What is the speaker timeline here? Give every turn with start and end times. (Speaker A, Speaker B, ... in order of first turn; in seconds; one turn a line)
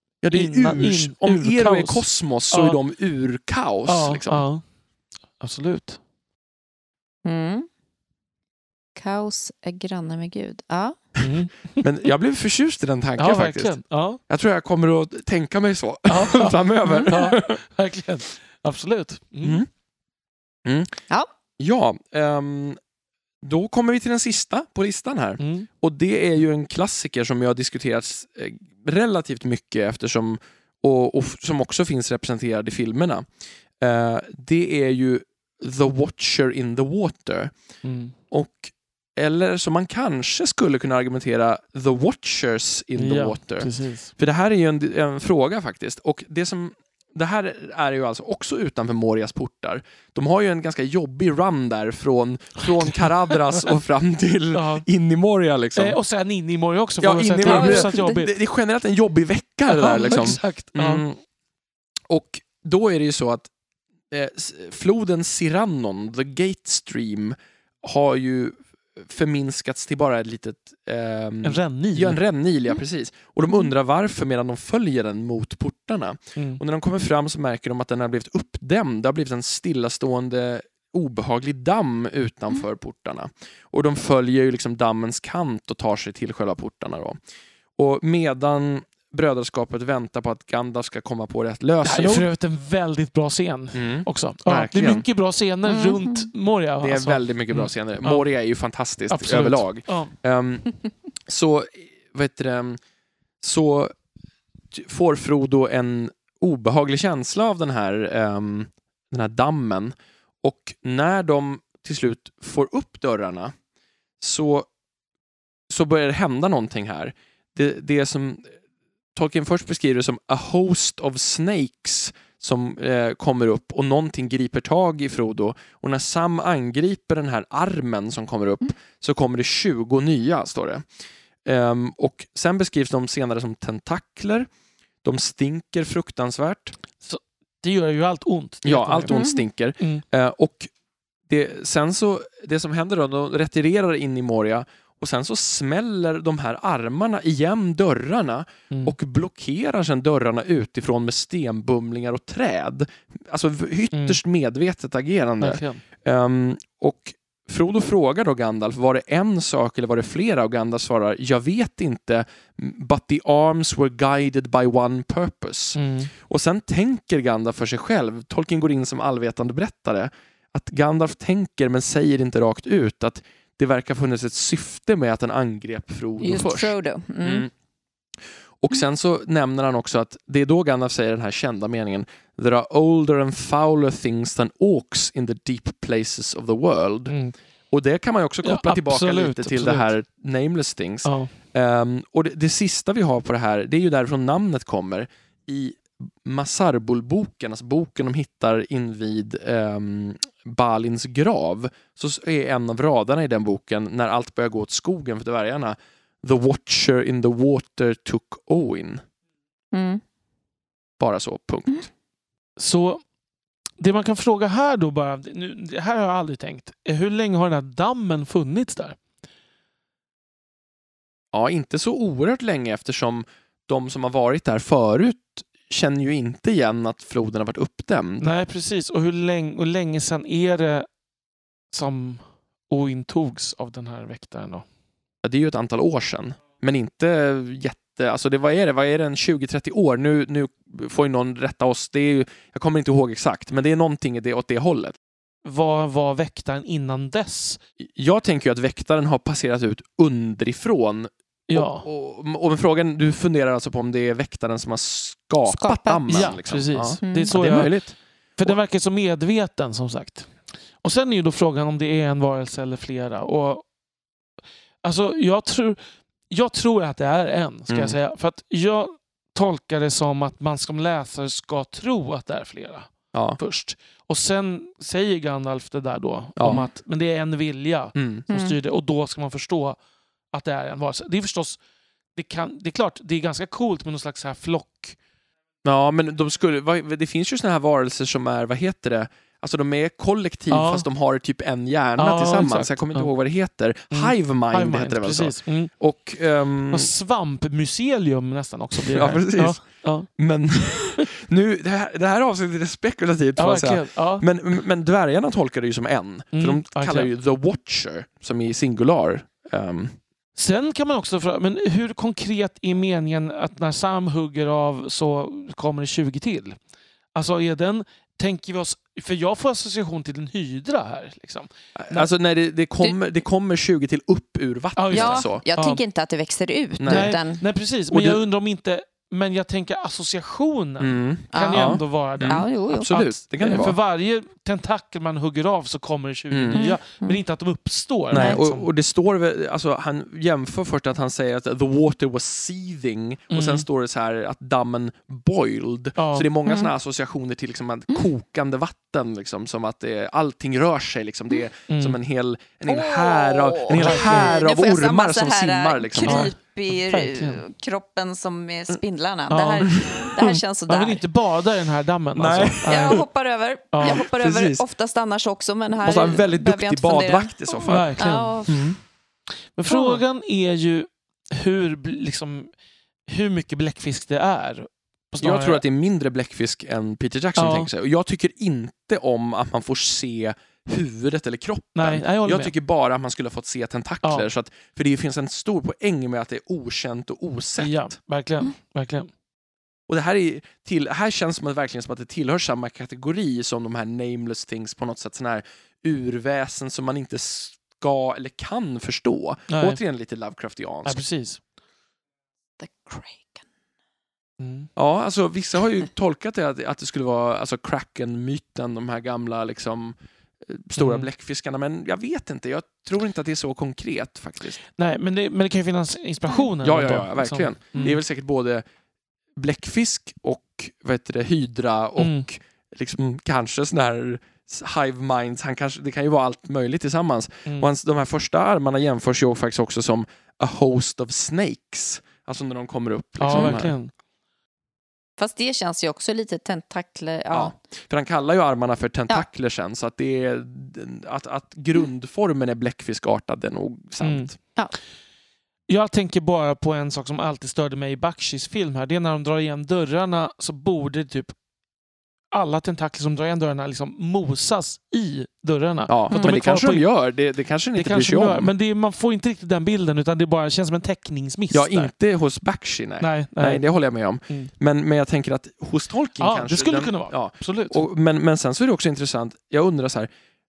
Speaker A: 0.2-4.5
Speaker B: 0.3-2.8
Speaker B: 3.9-4.6
Speaker B: 5.4-6.0
Speaker C: 7.2-7.7
Speaker C: 8.9-11.0
Speaker B: 11.2-11.8
Speaker A: 11.8-13.8
Speaker B: 13.2-14.2
Speaker A: 14.3-17.6
Speaker B: 16.1-19.6
Speaker C: 16.9-17.1
Speaker A: 19.4-19.7
Speaker A: 20.6-20.9
Speaker A: 21.6-22.8
Speaker A: 23.4-37.5
Speaker B: 25.4-25.7
Speaker B: 37.8-38.1
Speaker A: 38.3-56.0
Speaker B: 43.0-44.1
Speaker B: 52.8-53.6
Speaker B: 54.5-54.9
Speaker B: 55.8-58.3
Speaker A: 57.0-61.2
Speaker C: 57.4-58.2
Speaker B: 59.7-61.0
Speaker A: 62.1-63.5
Speaker A: 64.1-87.2
Speaker B: 71.4-72.2
Speaker B: 76.3-76.6
Speaker A: 87.8-92.3
Speaker B: 91.8-98.3
Speaker A: 93.7-95.0
Speaker C: 95.7-96.3
Speaker A: 96.8-100.7
Speaker B: 99.1-100.1
Speaker A: 101.2-102.8
Speaker A: 103.4-103.9
Speaker A: 104.7-113.5
Speaker A: 114.2-114.7
Speaker A: 115.7-118.5
Speaker A: 119.1-130.9
Speaker A: 131.4-134.5
Speaker A: 135.0-136.8
Speaker B: 137.0-139.2
Speaker A: 138.6-140.7
Speaker C: 139.1-139.4
Speaker A: 141.3-177.5
Speaker B: 148.7-148.9
Speaker B: 153.9-154.2
Speaker B: 155.4-155.8
Speaker B: 165.8-166.1
Speaker C: 176.2-177.4
Speaker A: 178.6-187.1
Speaker B: 187.1-187.3
Speaker A: 187.7-209.0
Speaker B: 188.4-189.9
Speaker B: 191.0-191.3
Speaker C: 209.7-210.0
Speaker A: 211.0-211.9
Speaker B: 212.6-213.0
Speaker B: 213.8-219.0
Speaker A: 221.3-228.3
Speaker B: 228.2-230.9
Speaker B: 231.7-234.6
Speaker A: 235.2-244.9
Speaker B: 245.4-247.6
Speaker A: 247.8-258.6
Speaker B: 251.5-251.8
Speaker C: 255.5-256.3
Speaker B: 256.1-257.7
Speaker C: 257.0-257.3
Speaker B: 258.4-260.3
Speaker B: 260.8-263.7
Speaker B: 264.8-279.8
Speaker A: 267.7-267.9
Speaker A: 273.1-273.4
Speaker A: 276.4-276.6
Speaker A: 277.9-278.2
Speaker C: 278.3-278.6
Speaker B: 280.3-281.6
Speaker B: 282.1-285.0
Speaker A: 285.6-296.9
Speaker B: 290.5-290.9
Speaker B: 292.0-293.1
Speaker B: 293.9-295.7
Speaker B: 296.7-300.1
Speaker A: 298.8-299.6
Speaker A: 300.1-310.0
Speaker B: 303.4-304.2
Speaker B: 306.3-307.1
Speaker B: 310.3-316.6
Speaker B: 317.1-322.1
Speaker A: 321.8-325.4
Speaker B: 324.8-325.8
Speaker C: 324.9-327.4
Speaker A: 326.8-327.2
Speaker B: 326.9-338.6
Speaker A: 327.9-328.2
Speaker A: 330.8-333.8
Speaker C: 331.3-333.1
Speaker A: 336.3-336.7
Speaker C: 336.5-337.2
Speaker A: 338.1-356.3
Speaker C: 338.1-338.4
Speaker B: 343.3-343.6
Speaker B: 346.0-346.3
Speaker C: 346.4-346.7
Speaker B: 351.7-352.0
Speaker C: 352.7-361.0
Speaker B: 353.7-354.4
Speaker B: 356.0-357.4
Speaker B: 359.3-359.8
Speaker A: 359.7-360.4
Speaker B: 360.7-363.0
Speaker A: 362.1-363.0
Speaker C: 362.7-368.7
Speaker B: 363.7-364.0
Speaker A: 363.8-364.6
Speaker A: 365.8-368.8
Speaker B: 367.6-368.4
Speaker B: 369.5-372.5
Speaker C: 369.7-370.0
Speaker B: 373.1-375.6
Speaker A: 375.2-387.9
Speaker B: 377.4-377.7
Speaker B: 381.7-382.5
Speaker B: 384.0-384.3
Speaker B: 387.6-389.1
Speaker A: 389.9-401.0
Speaker B: 399.5-399.8
Speaker B: 400.8-401.4
Speaker C: 402.6-403.4
Speaker B: 404.4-404.7
Speaker A: 404.8-414.6
Speaker B: 410.8-411.1
Speaker B: 414.8-418.0
Speaker A: 416.6-418.6
Speaker A: 419.4-433.8
Speaker B: 422.0-422.3
Speaker B: 427.4-427.7
Speaker B: 433.2-433.9
Speaker C: 433.3-433.6
Speaker C: 435.2-437.5
Speaker A: 437.3-444.4
Speaker B: 444.0-444.3
Speaker B: 445.7-451.4
Speaker B: 452.3-456.9
Speaker A: 455.9-458.5
Speaker B: 457.7-461.9
Speaker A: 461.5-470.1
Speaker B: 463.0-463.6
Speaker B: 466.2-467.8